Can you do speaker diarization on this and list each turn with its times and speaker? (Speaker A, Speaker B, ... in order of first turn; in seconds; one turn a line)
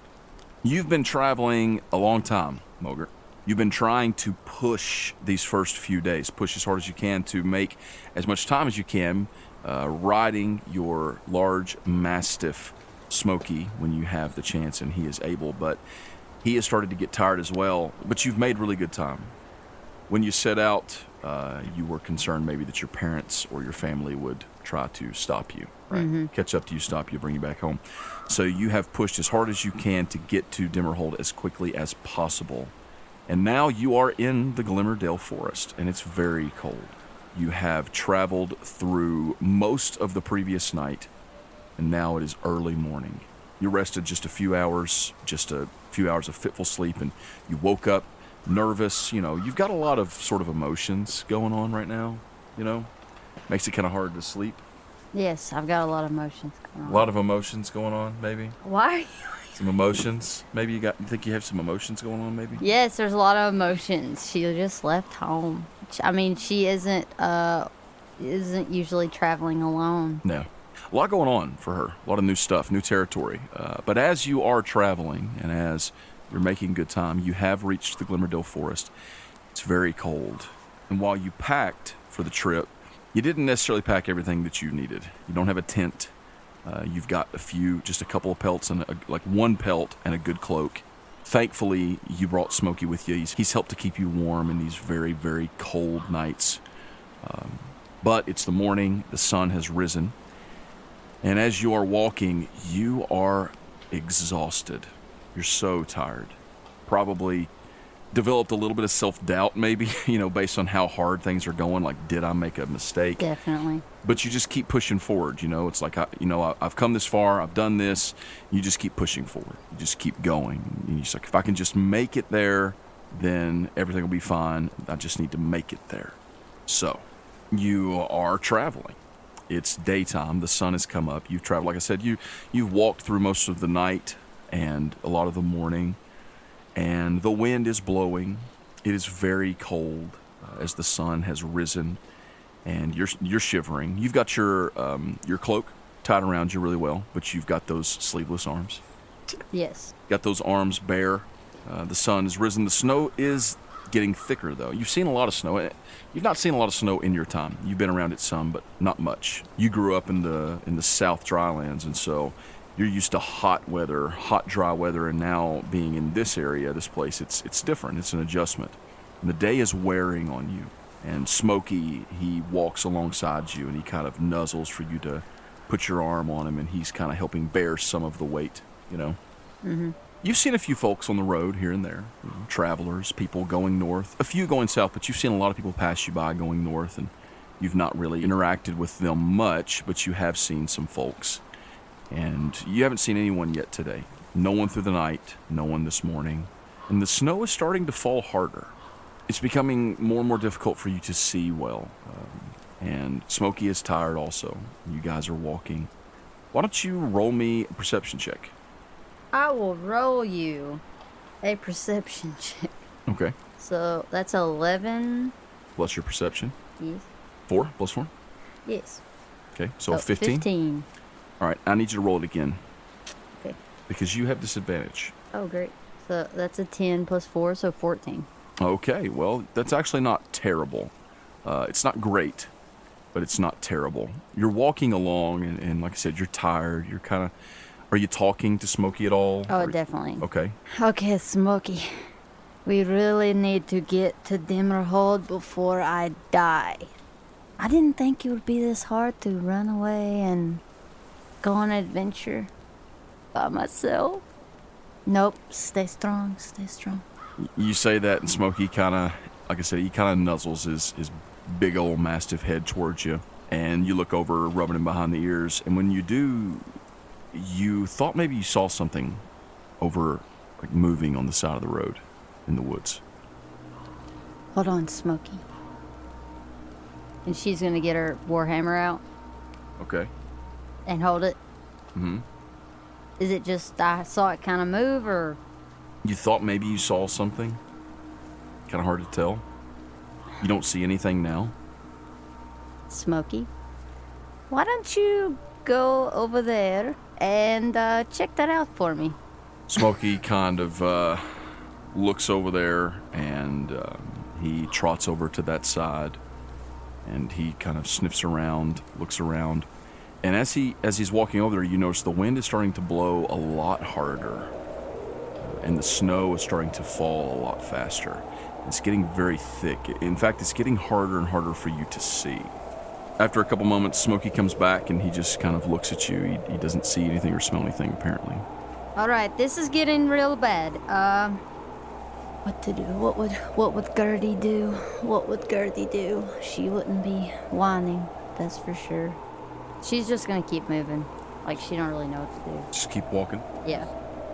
Speaker A: 0.6-15.8
Speaker A: 16.4-19.3
Speaker A: 20.1-32.7
Speaker B: 25.9-26.3
Speaker A: 33.3-41.1
Speaker A: 41.8-52.9
Speaker A: 53.5-54.6
Speaker B: 55.1-57.1
Speaker A: 56.9-58.6
Speaker B: 58.6-59.5
Speaker A: 59.5-62.6
Speaker B: 62.6-70.2
Speaker A: 70.2-78.9
Speaker A: 79.5-86.1
Speaker A: 86.6-96.6
Speaker A: 97.2-100.1
Speaker A: 101.2-107.5
Speaker A: 108.1-113.3
Speaker B: 113.2-113.8
Speaker A: 114.0-129.0
Speaker A: 129.5-136.0
Speaker A: 136.7-142.0
Speaker A: 142.6-148.8
Speaker B: 149.5-149.9
Speaker A: 150.1-179.2
Speaker B: 179.6-179.9
Speaker A: 180.2-191.4
Speaker A: 192.1-198.7
Speaker A: 199.3-205.9
Speaker A: 206.5-208.5
Speaker B: 209.3-210.8
Speaker B: 211.4-212.7
Speaker A: 213.1-213.3
Speaker B: 213.6-215.3
Speaker A: 215.8-216.5
Speaker B: 216.8-217.1
Speaker A: 217.5-218.1
Speaker B: 218.7-219.0
Speaker A: 219.5-220.4
Speaker B: 219.9-220.8
Speaker A: 221.4-222.6
Speaker A: 223.9-225.1
Speaker B: 225.3-228.3
Speaker A: 228.6-230.9
Speaker A: 231.4-232.5
Speaker A: 233.1-237.3
Speaker A: 237.9-240.6
Speaker B: 239.5-242.0
Speaker B: 242.7-246.9
Speaker B: 247.6-250.6
Speaker B: 251.4-252.5
Speaker B: 253.3-254.2
Speaker B: 255.1-257.0
Speaker A: 257.4-266.6
Speaker A: 267.3-269.2
Speaker A: 269.8-273.0
Speaker B: 274.5-275.4
Speaker B: 277.2-279.0
Speaker A: 279.8-280.1
Speaker B: 280.9-281.4
Speaker A: 281.9-282.2
Speaker B: 283.2-285.4
Speaker A: 286.0-287.6
Speaker A: 288.7-289.4
Speaker A: 290.4-291.5
Speaker B: 292.9-293.5
Speaker B: 294.5-299.2
Speaker A: 299.7-301.2
Speaker A: 301.9-306.2
Speaker A: 307.0-309.7
Speaker A: 310.2-314.5
Speaker A: 315.4-322.5
Speaker A: 323.2-328.4
Speaker B: 328.9-331.4
Speaker B: 332.4-339.2
Speaker B: 339.8-342.7
Speaker A: 342.7-343.5
Speaker B: 343.6-343.9